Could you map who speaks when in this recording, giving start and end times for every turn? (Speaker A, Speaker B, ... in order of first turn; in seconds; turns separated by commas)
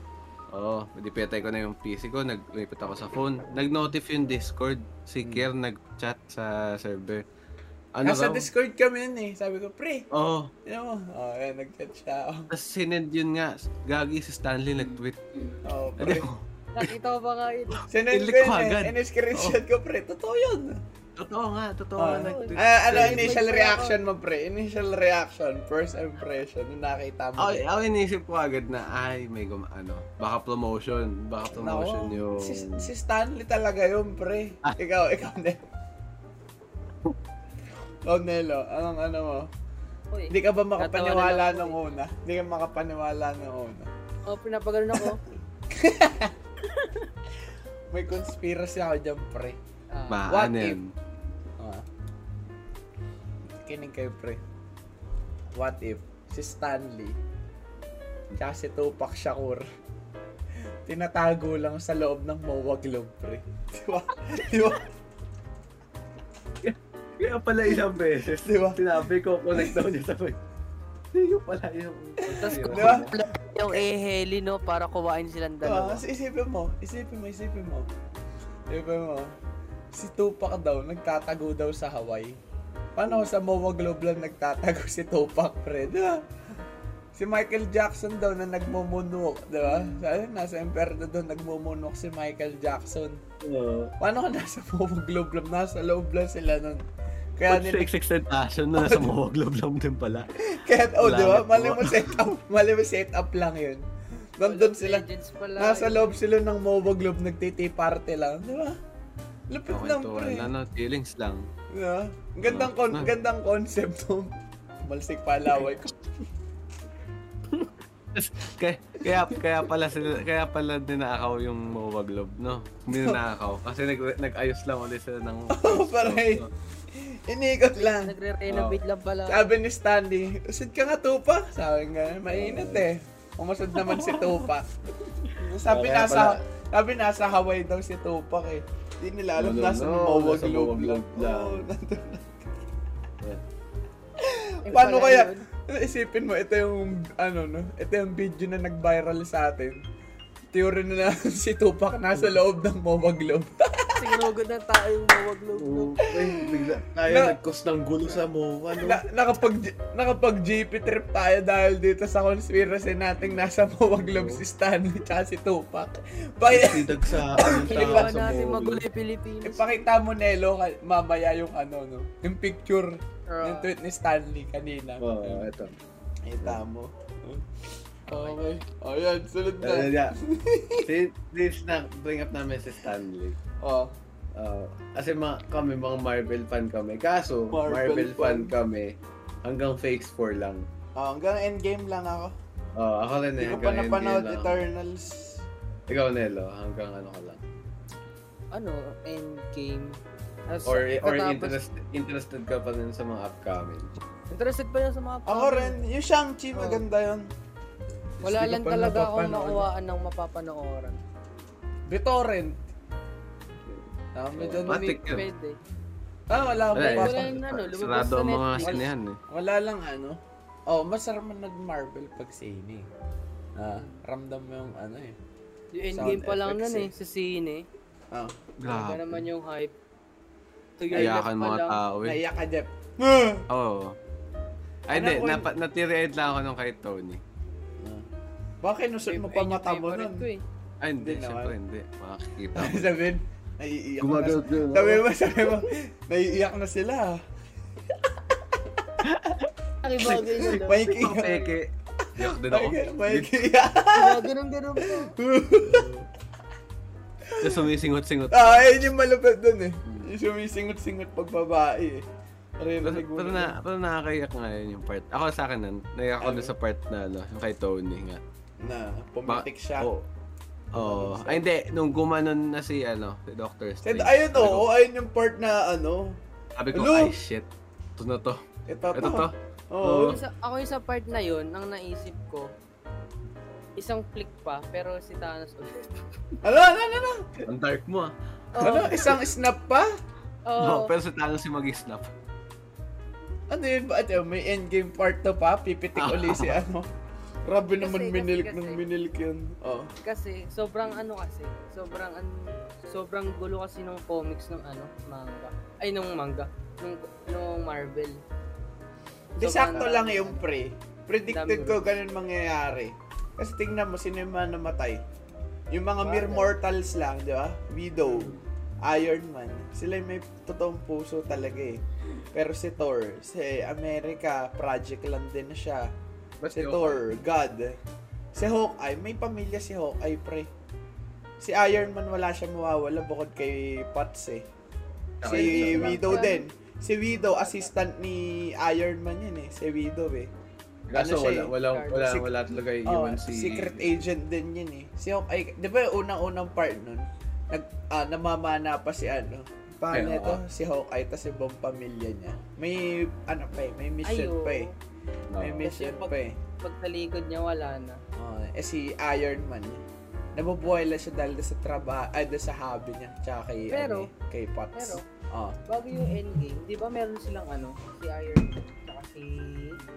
Speaker A: 0.5-7.2, Speaker B: 5.2-5.5, Speaker A: 8.0-8.5, Speaker B: 8.0-10.1, Speaker A: 10.1-10.5, Speaker B: 10.7-12.5, Speaker A: 12.5-16.9, Speaker B: 15.6-16.3, Speaker C: 16.7-17.9, Speaker B: 17.9-20.8, Speaker A: 18.1-19.6, Speaker A: 21.2-23.5, Speaker B: 22.0-27.6, Speaker C: 22.2-24.0, Speaker A: 27.4-32.9, Speaker B: 31.5-35.6, Speaker B: 38.1-39.5, Speaker C: 40.1-41.8, Speaker B: 40.3-43.9, Speaker C: 44.3-45.2, Speaker B: 45.7-46.4, Speaker C: 46.7-47.0, Speaker B: 47.9-49.6, Speaker C: 49.9-50.3, Speaker A: 50.1-50.9, Speaker B: 50.3-50.8, Speaker B: 51.6-51.9, Speaker B: 53.6-54.4, Speaker B: 55.5-57.1, Speaker B: 58.4-59.6, Speaker B: 60.9-64.9, Speaker A: 66.6-70.4, Speaker B: 68.4-69.0, Speaker B: 69.5-69.8, Speaker A: 71.1-73.1, Speaker B: 72.2-73.8, Speaker C: 72.4-76.0, Speaker B: 75.6-77.9, Speaker B: 78.7-79.3, Speaker B: 79.9-82.4, Speaker B: 83.0-86.2, Speaker B: 87.1-93.2, Speaker A: 93.4-93.9, Speaker B: 94.0-96.8, Speaker B: 97.4-97.9, Speaker A: 97.5-100.3, Speaker B: 98.8-99.1, Speaker B: 100.4-103.9, Speaker A: 101.0-102.2, Speaker B: 104.4-105.1, Speaker C: 104.4-106.2, Speaker B: 105.6-108.8, Speaker B: 109.5-110.5, Speaker A: 109.7-111.5, Speaker B: 111.7-116.0, Speaker A: 112.5-113.1, Speaker A: 117.5-126.5, Speaker B: 122.9-123.2, Speaker B: 125.5-128.1, Speaker C: 127.9-129.5, Speaker A: 128.5-128.8, Speaker B: 129.3-134.7, Speaker A: 132.3-132.8, Speaker A: 133.8-134.5, Speaker A: 135.2-136.4, Speaker B: 135.3-142.7, Speaker A: 139.4-141.7, Speaker B: 144.2-149.8, Speaker C: 144.6-145.4, Speaker B: 150.5-154.2, Speaker C: 153.9-156.0, Speaker A: 155.6-159.0, Speaker B: 156.1-157.4, Speaker B: 158.7-168.4, Speaker A: 164.0-164.4, Speaker A: 166.5-168.8, Speaker C: 167.4-169.8, Speaker B: 169.4-175.5, Speaker C: 173.3-173.7, Speaker A: 175.0-175.8, Speaker B: 176.2-177.5, Speaker B: 178.1-180.9, Speaker C: 178.1-178.4, Speaker A: 179.6-180.2, Speaker A: 180.8-183.4, Speaker B: 183.6-183.9, Speaker A: 184.4-190.7, Speaker B: 187.5-188.5, Speaker B: 191.0-192.3, Speaker A: 192.8-194.6, Speaker B: 193.4-195.4, Speaker A: 195.9-197.4, Speaker C: 198.5-201.6, Speaker A: 200.6-203.9, Speaker C: 204.3-205.8, Speaker B: 205.3-207.3, Speaker C: 206.5-206.8, Speaker B: 208.2-209.7, Speaker C: 208.2-211.0, Speaker B: 211.9-212.6, Speaker B: 214.1-214.9, Speaker A: 214.3-215.3, Speaker C: 214.6-215.6, Speaker B: 216.3-217.4, Speaker A: 216.7-219.2, Speaker C: 216.8-218.9, Speaker B: 218.6-222.9, Speaker B: 223.6-225.2, Speaker C: 225.7-227.6, Speaker B: 225.9-226.9, Speaker A: 228.6-229.3, Speaker C: 228.6-229.7, Speaker C: 230.8-231.8, Speaker A: 230.9-232.2, Speaker B: 232.0-233.5, Speaker A: 233.5-234.0, Speaker A: 234.9-237.2, Speaker B: 234.9-235.5, Speaker B: 237.8-238.1, Speaker B: 238.6-240.3, Speaker C: 239.1-240.4, Speaker A: 240.8-242.9, Speaker B: 241.0-241.6, Speaker B: 242.6-247.2, Speaker A: 244.0-245.1, Speaker B: 247.9-248.8, Speaker A: 249.0-253.3, Speaker C: 249.8-251.5, Speaker B: 250.1-251.4, Speaker B: 252.0-254.3, Speaker C: 253.9-255.1, Speaker B: 254.8-255.9, Speaker A: 255.6-256.1, Speaker B: 257.2-257.7, Speaker A: 257.4-258.9, Speaker B: 258.3-262.1, Speaker B: 262.6-263.6, Speaker A: 262.8-268.2, Speaker B: 266.2-266.5, Speaker B: 268.6-269.9, Speaker A: 269.3-270.1, Speaker B: 270.7-271.4, Speaker A: 270.7-274.6, Speaker B: 273.8-276.2, Speaker A: 276.6-280.2, Speaker B: 276.7-277.1, Speaker B: 278.7-280.2, Speaker C: 279.9-282.5, Speaker C: 283.8-285.9, Speaker B: 286.4-287.3, Speaker A: 287.4-288.9, Speaker C: 288.5-289.2, Speaker B: 288.6-289.9, Speaker C: 290.5-290.9, Speaker A: 290.6-292.1, Speaker B: 293.5-296.9, Speaker A: 296.0-296.6, Speaker B: 297.5-299.9, Speaker C: 297.8-298.9, Speaker C: 300.0-308.2, Speaker B: 309.4-315.0, Speaker C: 309.4-310.5, Speaker C: 311.3-311.9, Speaker B: 315.7-325.9, Speaker C: 316.0-316.5, Speaker C: 318.1-318.4, Speaker A: 326.4-327.1, Speaker B: 326.5-327.8, Speaker B: 328.3-330.5, Speaker B: 331.4-334.5, Speaker A: 335.2-336.3, Speaker B: 335.2-340.3, Speaker C: 335.3-336.4, Speaker C: 337.1-337.7, Speaker A: 340.9-344.1, Speaker B: 340.9-342.3, Speaker C: 341.7-342.1, Speaker B: 342.9-354.7, Speaker A: 349.9-350.4, Speaker C: 354.0-354.8, Speaker A: 355.3-355.7, Speaker B: 355.4-356.4, Speaker C: 355.6-358.0, Speaker B: 358.2-359.8, Speaker B: 360.4-365.6, Speaker C: 363.7-364.1, Speaker C: 364.8-365.0, Speaker C: 365.7-369.8